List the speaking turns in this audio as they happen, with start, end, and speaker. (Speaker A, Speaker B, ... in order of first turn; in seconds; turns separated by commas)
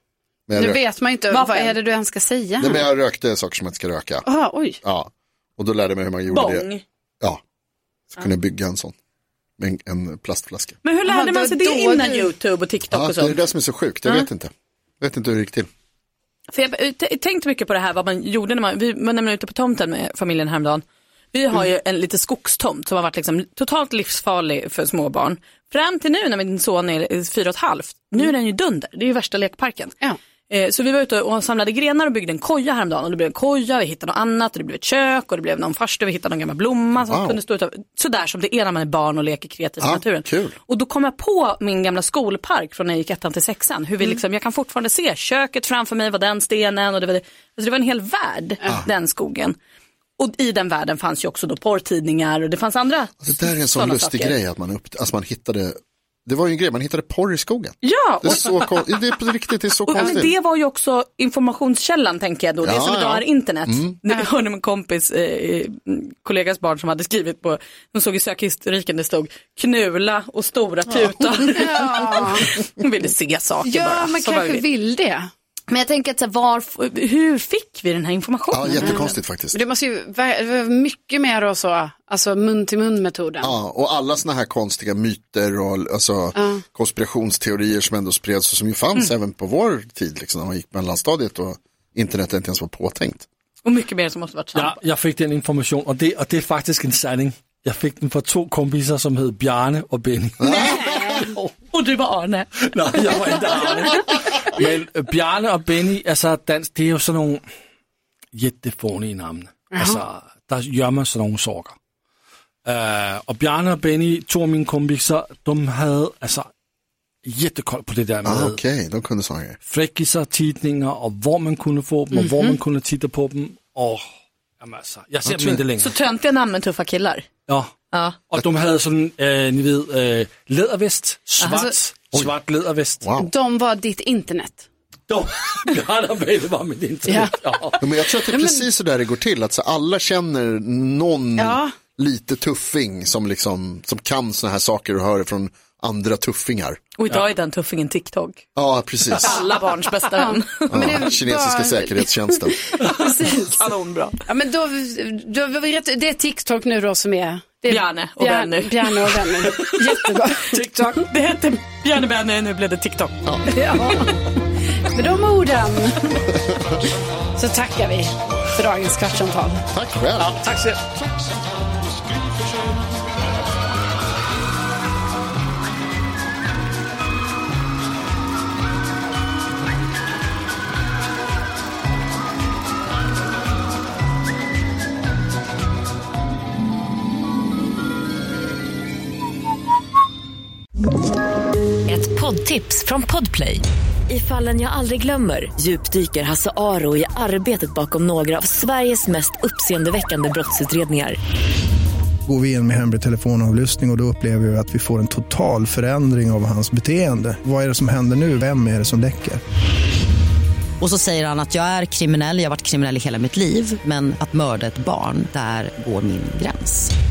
Speaker A: 0.5-0.8, Speaker B: 0.5-2.9, Speaker C: 1.3-1.7, Speaker A: 2.6-4.3, Speaker B: 4.2-4.8, Speaker A: 4.8-6.7, Speaker C: 6.3-6.8, Speaker A: 8.2-8.9, Speaker A: 9.6-10.8, Speaker C: 10.8-13.4, Speaker B: 11.0-12.3, Speaker A: 12.9-15.7, Speaker C: 16.5-29.9, Speaker C: 30.5-49.5, Speaker A: 37.0-37.4, Speaker A: 39.8-40.5, Speaker C: 50.2-54.4, Speaker A: 53.2-60.3, Speaker C: 57.8-58.9, Speaker C: 59.9-74.6, Speaker B: 60.0-60.2, Speaker A: 62.6-63.9, Speaker B: 71.5-72.5, Speaker B: 73.6-75.3, Speaker C: 75.7-79.1, Speaker A: 78.5-79.6, Speaker B: 78.8-83.5, Speaker A: 83.4-93.3, Speaker B: 86.3-86.6, Speaker C: 93.6-94.8, Speaker D: 94.5-100.7, Speaker A: 100.4-101.2, Speaker B: 100.5-101.3, Speaker D: 101.2-101.5, Speaker C: 101.7-104.3, Speaker D: 102.6-107.4, Speaker D: 108.3-111.8, Speaker B: 109.7-110.0, Speaker D: 112.6-116.5, Speaker D: 117.2-118.6, Speaker A: 118.2-119.6, Speaker D: 119.7-124.0, Speaker B: 122.1-122.5, Speaker D: 124.6-125.9, Speaker A: 125.2-125.6, Speaker C: 125.8-127.2, Speaker D: 127.5-127.7, Speaker C: 127.9-128.2, Speaker D: 128.3-133.1, Speaker C: 131.4-131.6, Speaker B: 131.4-131.8, Speaker A: 133.0-133.3, Speaker B: 133.2-134.6, Speaker D: 135.1-137.8, Speaker B: 137.1-137.3, Speaker A: 137.8-146.8, Speaker B: 138.3-138.7, Speaker B: 141.4-141.7, Speaker C: 147.0-148.4, Speaker A: 148.5-149.4, Speaker C: 149.2-151.0, Speaker B: 149.2-153.7, Speaker A: 150.7-152.6, Speaker C: 152.9-154.2, Speaker B: 154.2-161.0, Speaker C: 157.7-160.1, Speaker C: 161.0-164.0, Speaker B: 163.5-164.2, Speaker B: 164.9-166.3, Speaker B: 167.3-169.6, Speaker A: 169.7-170.4, Speaker D: 170.2-170.8, Speaker E: 191.9-201.2, Speaker F: 202.2-209.4, Speaker G: 210.8-216.9